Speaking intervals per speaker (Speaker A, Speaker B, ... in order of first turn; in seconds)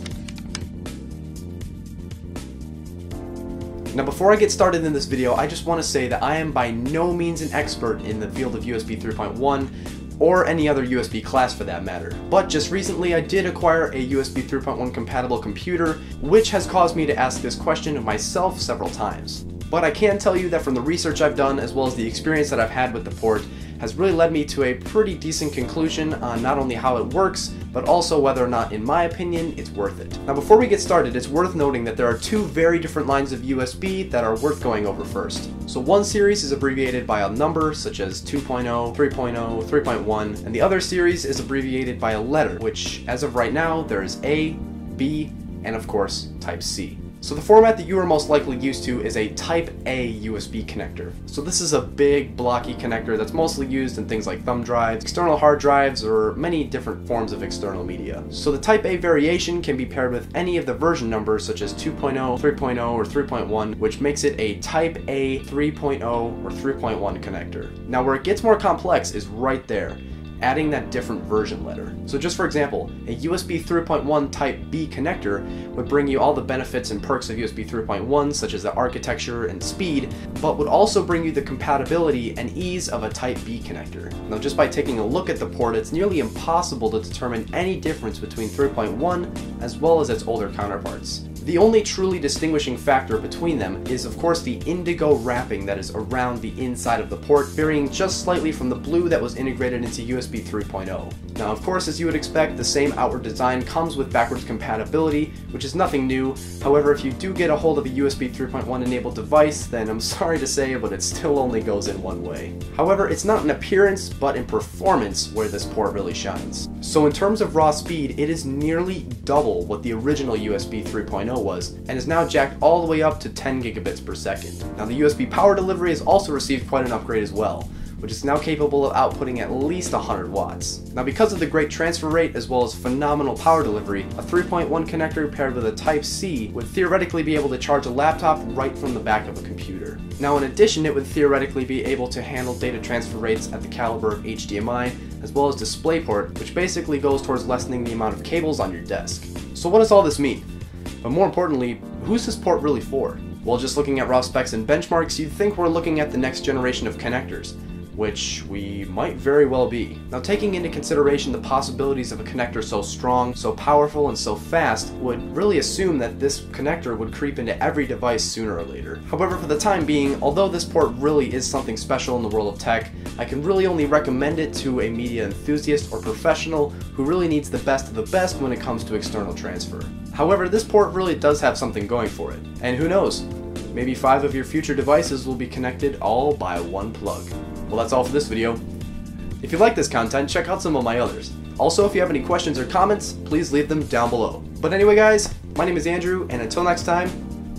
Speaker A: 3.9-150.4, 151.0-188.6, 189.4-197.2